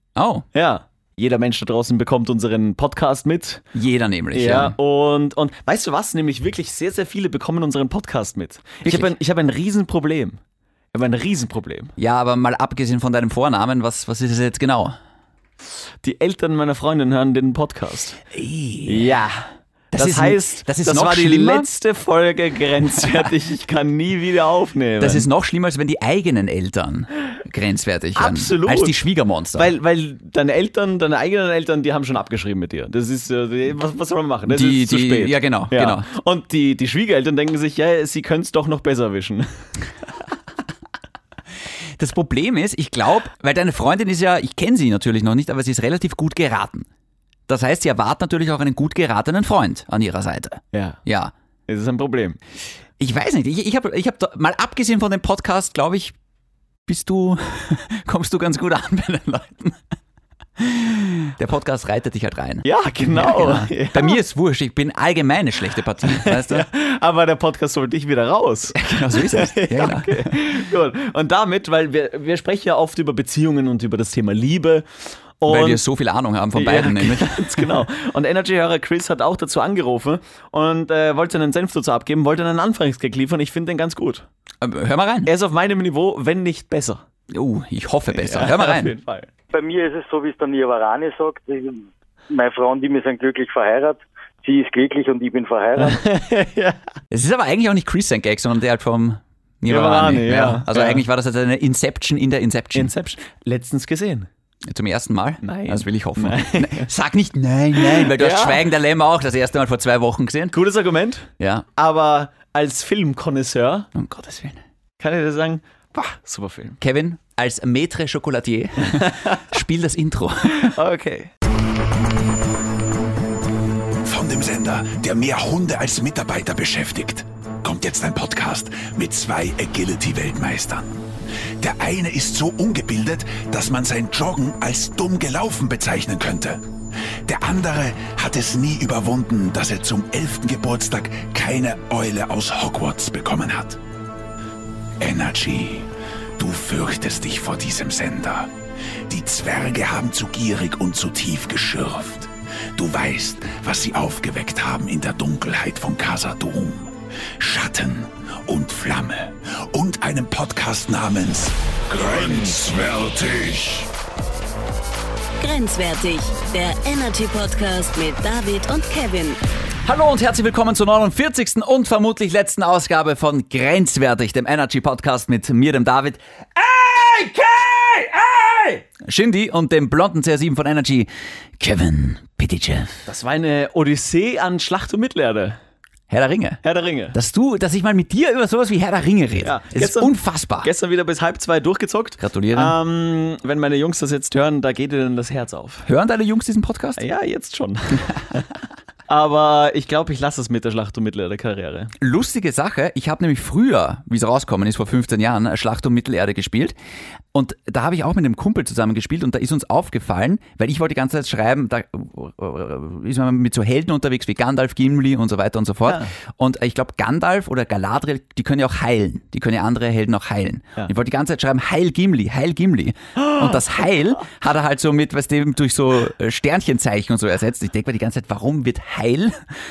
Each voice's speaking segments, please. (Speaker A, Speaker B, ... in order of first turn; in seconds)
Speaker A: 0.2-0.5, 3.7-4.8, 8.8-9.1, 12.0-15.0, 18.3-19.1, 19.9-21.7, 25.0-29.7, 34.5-36.1, 42.0-46.9, 47.5-51.3, 53.0-56.1, 56.9-59.8, 60.6-66.7, 68.8-70.5, 75.5-77.8, 84.6-85.3, 87.3-89.0, 97.1-102.9, 104.7-110.6, 111.4-111.7, 114.0-114.6, 116.8-120.8, 169.8-183.0, 186.1-186.6, 187.1-190.7, 192.2-192.8, 195.9-197.0, 202.0-206.7, 207.3-229.5
Speaker B: 0.5-3.6, 4.3-10.4, 10.9-11.9, 16.0-18.2, 18.9-25.3, 28.2-29.0, 29.6-39.5, 50.7-51.0, 51.7-52.4, 62.6-64.2, 66.0-74.9, 75.4-75.8, 76.5-84.2, 85.3-87.0, 88.1-89.3, 95.8-96.8, 99.7-101.0, 102.8-104.3, 105.4-106.9, 107.8-108.7, 110.5-113.9, 115.0-116.8, 118.9-119.4, 120.5-121.3, 183.1-185.6, 186.6-187.2, 189.4-195.9, 197.0-198.5, 199.1-201.9, 215.9-216.1, 223.2-223.8
Speaker C: 89.5-96.0
Speaker D: 124.0-131.1, 131.6-136.6, 137.2-143.8, 145.0-148.5, 149.1-163.9
Speaker E: 165.4-169.4